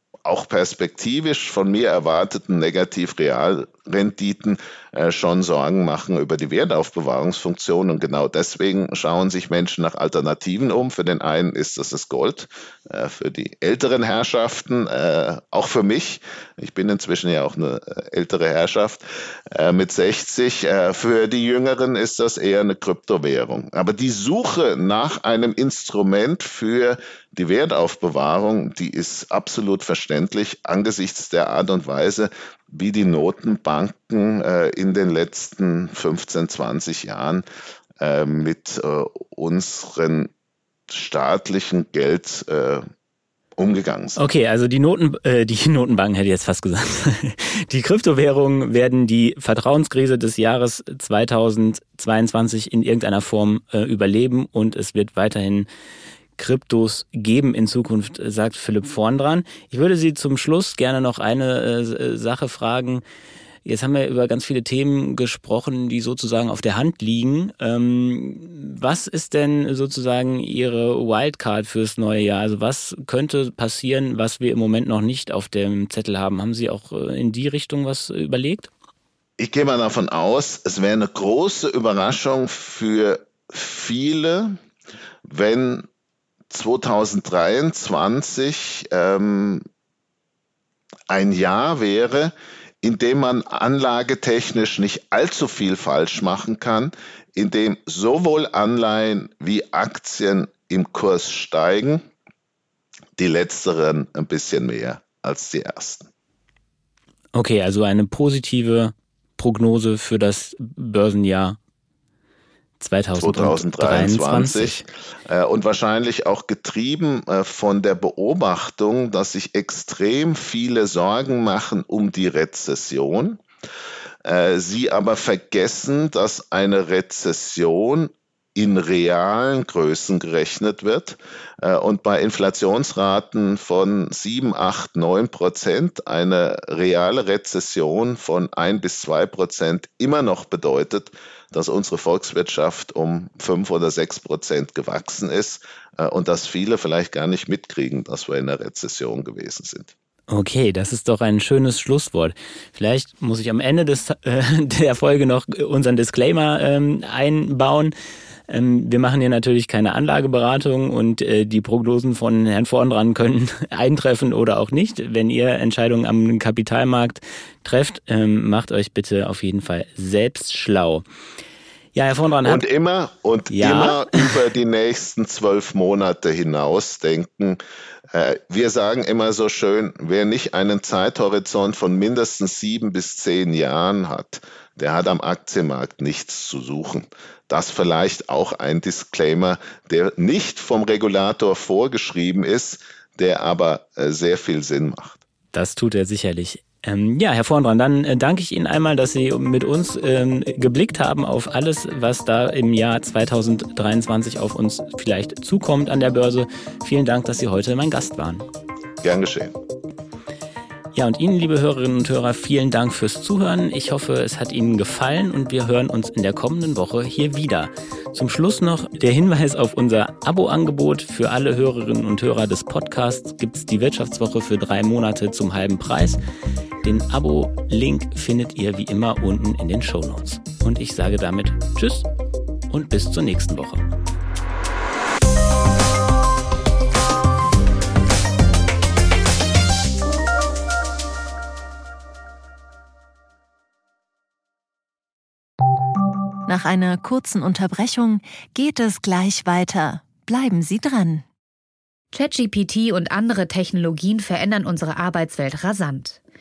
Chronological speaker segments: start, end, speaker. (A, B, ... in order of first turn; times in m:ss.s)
0:00.2-0:37.4 A
0:38.0-0:40.3 A
0:40.9-0:42.9 A
0:43.6-0:44.2 A
0:44.2-0:55.7 B
0:56.4-1:03.0 B
1:03.6-1:18.7 B
1:19.4-1:24.6 A
1:25.2-1:25.9 A
1:26.5-1:29.6 A
1:31.1-1:42.0 A
1:43.2-1:46.1 A
1:47.3-1:51.6 B
1:52.8-1:54.8 B
1:53.2-2:03.4 A
2:04.2-2:29.9 A
2:30.3-2:37.9 B
2:38.5-2:51.0 B
2:51.9-2:52.6 B
2:52.4-2:57.6 A
2:53.5-2:54.4 B
2:58.1-3:15.2 A
3:15.5-3:28.4 B
3:29.0-3:29.5 A
3:30.9-3:46.2 B
3:46.8-3:52.1 B
3:52.7-3:53.9 B
4:06.5-4:11.2 C
4:12.1-4:16.2 D